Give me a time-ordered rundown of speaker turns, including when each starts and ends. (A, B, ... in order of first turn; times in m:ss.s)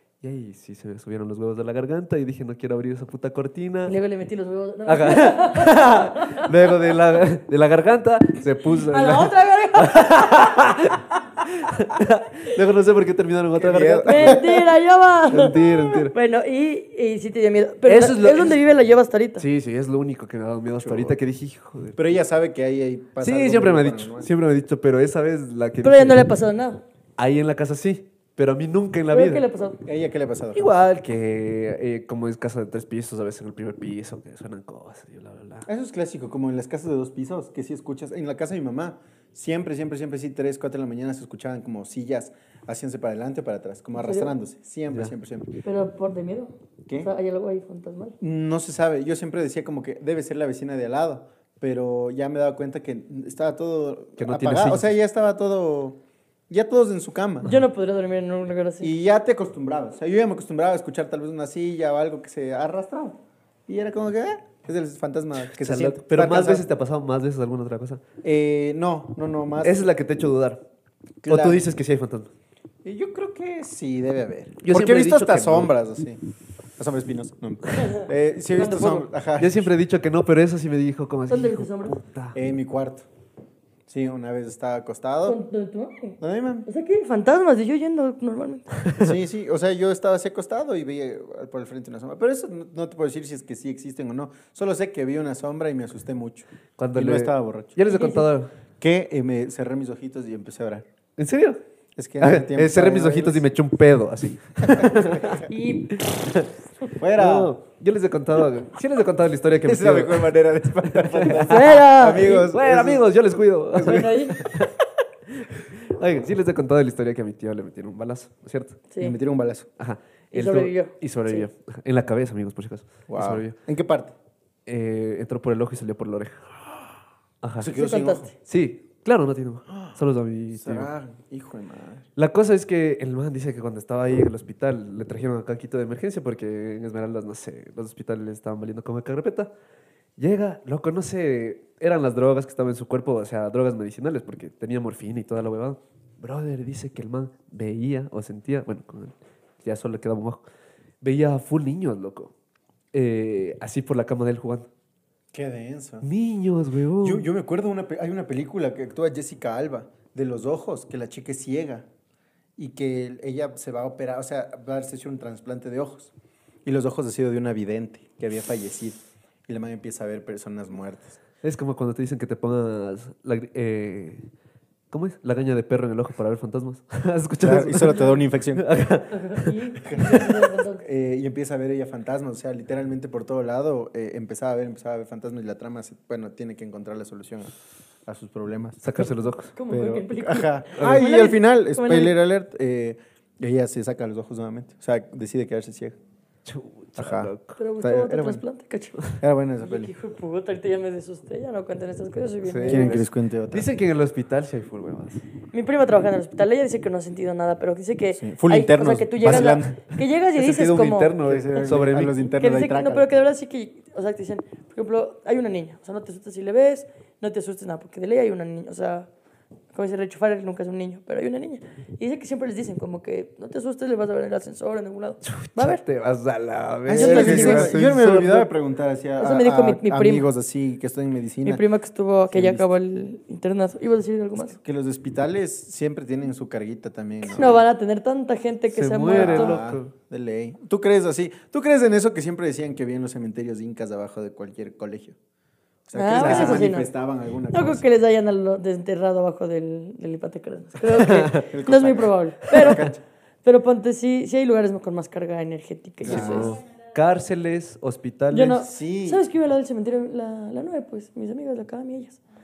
0:00.2-0:03.9 A
0:03.8-0:06.5 B
0:04.8-0:14.5 A
0:08.9-0:10.7 B
0:13.5-0:14.6 C
0:14.1-0:19.4 B
0:15.3-0:16.1 A
0:17.8-0:18.6 A
0:19.4-0:22.0 A
0:20.8-0:21.2 C
0:22.0-0:24.3 C
0:23.2-0:26.2 A
0:25.8-0:26.8 B
0:27.2-0:29.4 A
0:29.1-0:29.8 B
0:29.8-0:30.6 C
0:30.5-0:35.7 A
0:35.6-0:45.5 C
0:43.9-0:44.3 B
0:45.6-0:48.1 B
0:48.2-0:57.5 C
0:54.2-0:54.9 A
0:57.4-0:58.9 B
0:58.8-1:06.6 C
1:05.4-1:08.0 A
1:08.2-1:09.8 C
1:09.6-1:10.6 A
1:11.2-1:12.3 A
1:11.2-1:11.6 C
1:12.8-1:16.2 C
1:14.6-1:15.7 A
1:16.8-1:19.7 C
1:17.8-1:19.0 B
1:19.4-1:22.4 A
1:21.3-1:22.0 B
1:22.3-1:23.0 C
1:23.9-1:25.4 C
1:25.2-1:28.7 B
1:26.2-1:26.7 C
1:28.8-1:29.1 A
1:29.0-1:37.8 C
1:36.8-1:38.5 A
1:37.9-1:38.3 B
1:38.8-1:40.8 C
1:41.2-1:41.6 A
1:42.0-1:43.4 C
1:42.2-1:45.4 A
1:44.6-1:45.4 C
1:45.5-1:46.0 B
1:46.0-1:46.5 A
1:47.0-1:47.5 C
1:47.1-1:50.3 A
1:49.6-1:53.1 C
1:50.8-1:54.7 A
1:51.4-1:52.5 B
1:53.7-1:54.2 C
1:53.8-1:54.4 B
1:55.3-1:58.8 A
1:59.0-1:59.7 C
1:59.8-2:03.6 A
2:00.3-2:01.5 B
2:03.1-2:04.1 C
2:04.6-2:06.6 A
2:07.4-2:07.7 A
2:07.6-2:08.3 C
2:07.7-2:08.3 B
2:08.4-2:10.9 A
2:10.5-2:12.1 C
2:12.2-2:19.5 A
2:20.2-2:30.4 A
2:31.0-2:32.3 A
2:32.9-2:34.7 A
2:35.3-2:36.1 C
2:36.0-2:37.3 A
2:37.0-2:41.8 C
2:42.6-2:46.1 C
2:46.6-2:51.2 C
2:51.4-2:54.2 A
2:54.9-2:59.5 A
2:57.4-2:58.6 C
2:59.1-3:00.8 B
2:59.8-3:07.5 C
3:08.0-3:08.8 C
3:08.8-3:09.5 A
3:09.0-3:12.1 B
3:09.7-3:16.0 C
3:10.8-3:11.0 A
3:16.4-3:17.6 A
3:17.0-3:18.4 C
3:17.6-3:23.0 B
3:19.2-3:19.9 C
3:22.4-3:25.2 A
3:22.7-3:23.7 C
3:25.5-3:31.1 B
3:28.2-3:29.8 C
3:30.3-3:32.2 A
3:31.2-3:33.1 C
3:32.3-3:39.1 B
3:39.7-3:45.8 B
3:45.2-3:48.5 A
3:46.9-3:51.6 C
3:46.9-3:47.7 B
3:49.2-3:50.3 B
3:51.4-3:54.6 B
3:52.3-3:52.7 C
3:54.4-3:57.6 C
3:57.2-3:59.6 B
3:58.7-3:59.9 A
3:59.1-4:05.2 C
4:05.9-4:07.8 C
4:05.9-4:06.9 B
4:06.1-4:06.6 A
4:07.5-4:12.9 B
4:10.9-4:11.4 A
4:11.4-4:13.0 C
4:12.6-4:12.8 A
4:13.4-4:16.6 B
4:16.0-4:16.6 C
4:16.0-4:18.6 A
4:18.3-4:22.2 B
4:18.6-4:19.2 C